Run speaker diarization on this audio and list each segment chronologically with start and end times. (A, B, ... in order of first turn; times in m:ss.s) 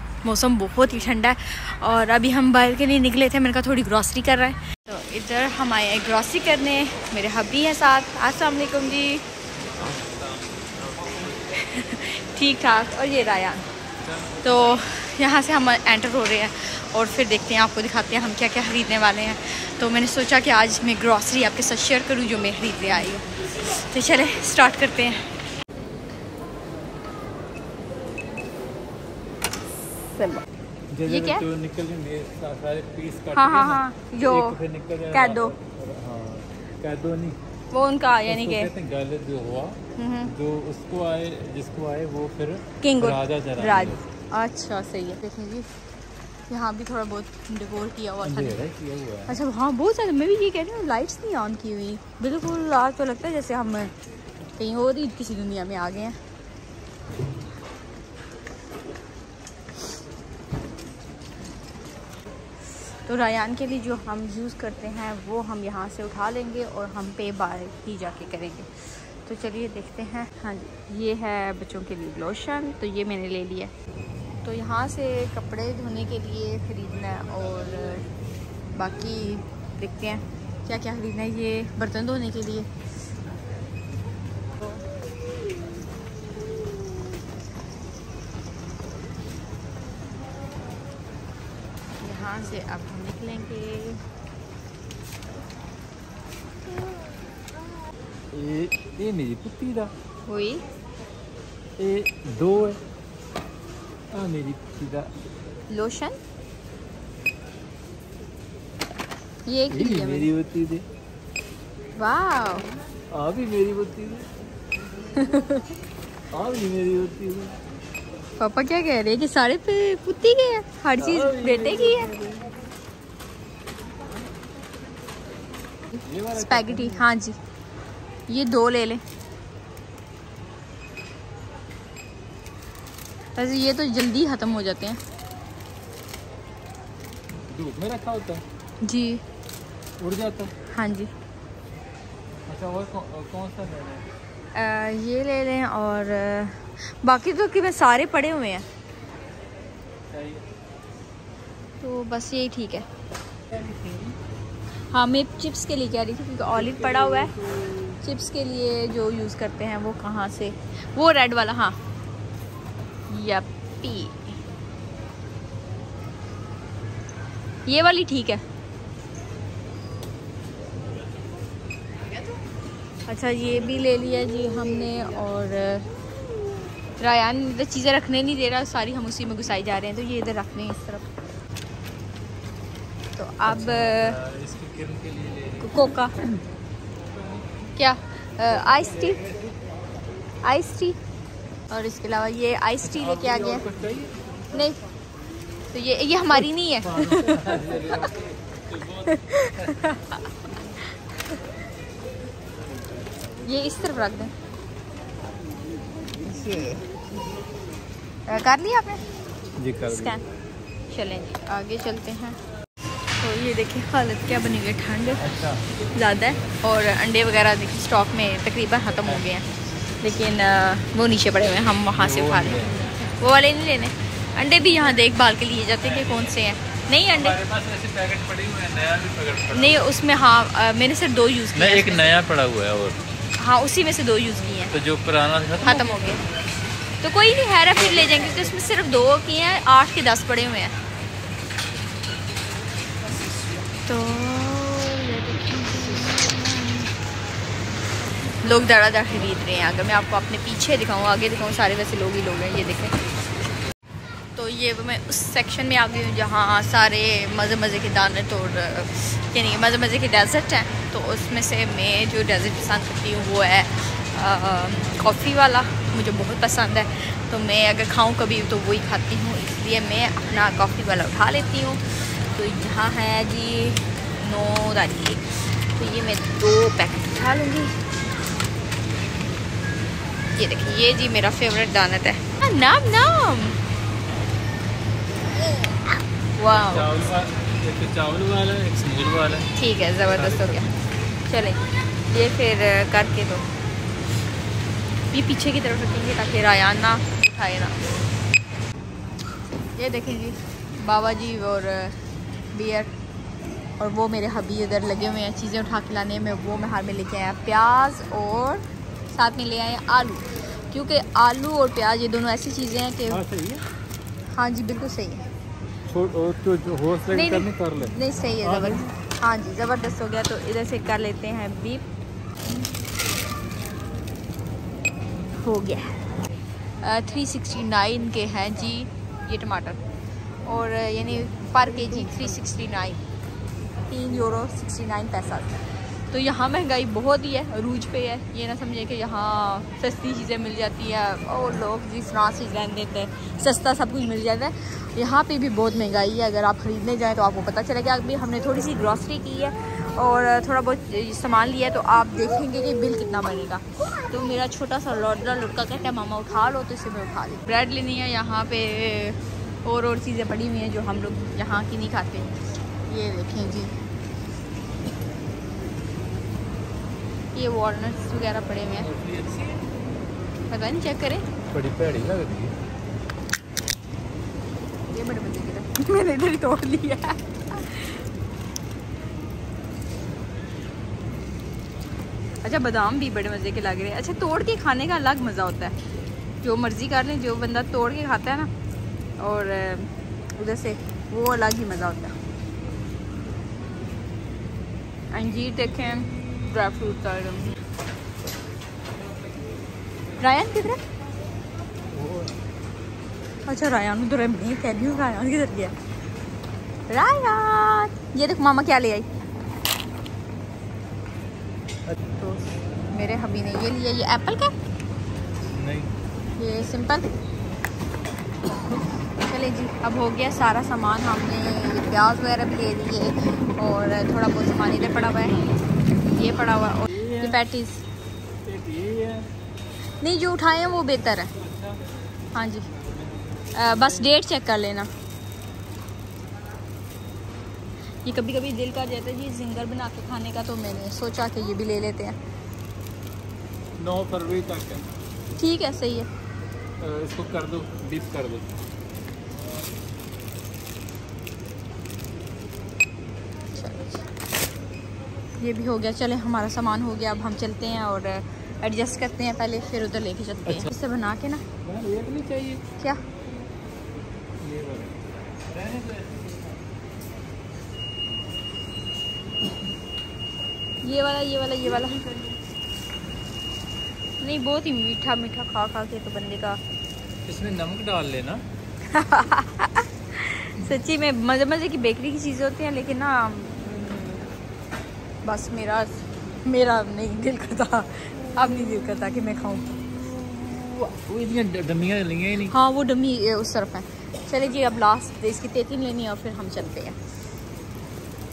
0:00.2-0:09.2 A
0:09.6-0:11.7 B
0:11.4-0:13.6 A
0:14.0-0:14.8 B
0:14.4-0:25.3 A
0:30.1-0:30.4 A
0:30.9-0:37.4 B
0:31.0-0:31.4 A
0:33.3-0:35.5 A
0:37.7-0:38.7 A
0:38.2-0:44.0 B
0:40.0-0:40.3 A
0:42.8-0:45.7 A
0:46.5-0:48.6 A
0:48.2-0:49.4 B
0:49.3-0:53.9 A
0:54.5-0:56.2 A
1:03.0-1:13.7 A
1:14.4-1:18.1 A
1:18.7-1:22.7 A
1:32.0-1:34.0 A
1:38.3-1:39.9 B
1:40.2-1:40.6 A
1:41.8-1:42.8 B
1:44.1-1:45.1 B
1:45.7-1:46.2 A
1:49.4-1:50.3 A
1:49.7-1:50.8 B
1:52.0-1:52.7 A
1:53.1-1:54.3 B
1:55.1-1:55.7 A
1:56.3-1:57.6 B
1:58.4-2:02.1 A
2:01.0-2:02.5 B
2:06.0-2:07.1 B
2:06.3-2:07.4 A
2:08.3-2:09.0 A
2:13.4-2:15.0 A
2:17.5-2:18.4 B
2:18.8-2:19.2 A
2:20.0-2:20.5 B
2:20.7-2:21.1 A
2:22.5-2:24.1 B
2:24.5-2:28.6 A
2:30.1-2:30.4 B
2:31.8-2:32.9 A
2:33.5-2:34.1 B
2:34.9-2:37.4 A
2:36.5-2:38.0 B
2:38.0-2:41.8 A
2:43.1-2:44.3 A
2:47.6-2:48.4 A
2:53.1-2:55.9 A
2:57.0-3:01.0 A
3:03.1-3:04.2 A
3:03.4-3:05.9 B
3:05.6-3:06.2 A
3:07.1-3:07.4 B
3:07.8-3:09.2 A
3:09.1-3:09.4 B
3:10.4-3:11.0 A
3:11.7-3:13.6 A
3:12.8-3:14.1 B
3:14.5-3:14.8 A
3:15.7-3:17.8 A
3:16.4-3:19.9 B
3:19.0-3:20.3 A
3:23.4-3:24.3 A
3:26.2-3:27.0 A
3:28.3-3:29.0 A
3:29.6-3:30.2 B
3:29.9-3:30.2 A
3:30.9-3:32.4 A
3:33.2-3:35.2 A
3:35.2-3:35.6 B
3:35.9-3:39.4 A
3:40.0-3:47.4 A
3:41.9-3:42.9 B
3:45.9-3:46.3 B
3:47.1-3:49.9 B
3:49.5-3:52.2 A
3:51.5-3:53.0 B
3:53.4-3:54.7 A
3:54.7-3:56.2 B
3:55.6-3:56.2 A
3:57.0-4:00.7 A
4:03.8-4:06.9 A
4:08.4-4:13.0 A
4:14.3-4:37.7 A
4:40.4-4:43.6 A
4:46.4-4:46.9 A
4:46.5-4:49.5 B
4:49.5-4:50.7 A
4:50.0-4:50.7 B
4:51.2-4:53.4 A
4:55.1-4:57.7 A
4:59.8-5:02.0 A
5:02.5-5:02.9 A
5:03.8-5:13.2 A
5:13.1-5:13.6 B
5:14.3-5:15.2 A
5:15.8-5:18.9 B
5:17.1-5:21.8 A
5:25.4-5:26.0 A
5:26.8-5:29.8 A
5:30.4-5:33.0 A
5:33.9-6:03.7 A
6:07.3-6:08.9 A
6:08.8-6:09.7 B
6:10.5-6:11.3 A
6:11.5-6:12.5 B
6:14.9-6:18.0 A
6:22.4-6:25.8 A
6:26.4-6:28.5 A
6:29.2-6:32.1 A
6:35.1-6:37.6 A
6:40.2-6:40.8 A
6:41.9-6:42.4 B
6:43.4-6:45.7 A
6:46.9-6:49.1 A
6:52.2-6:54.5 A
6:55.5-6:55.9 B
6:56.4-6:57.1 A
6:59.2-7:07.8 A
7:06.9-7:07.4 B
7:08.4-7:09.3 B
7:10.0-7:11.3 A
7:11.3-7:11.9 B
7:12.3-7:12.7 A
7:12.8-7:14.2 B
7:13.5-7:14.9 A
7:18.0-7:22.2 A
7:23.8-7:24.9 B
7:25.4-7:26.1 A
7:26.8-7:28.5 B
7:33.5-7:34.0 A
7:35.4-7:41.4 A
7:41.6-7:42.6 B
7:44.4-7:46.6 B
7:50.8-7:52.0 A
7:54.2-7:56.6 A
7:57.2-7:58.4 B
7:58.9-8:04.4 A
8:05.2-8:09.8 A
8:10.6-8:12.6 B
8:12.4-8:17.0 A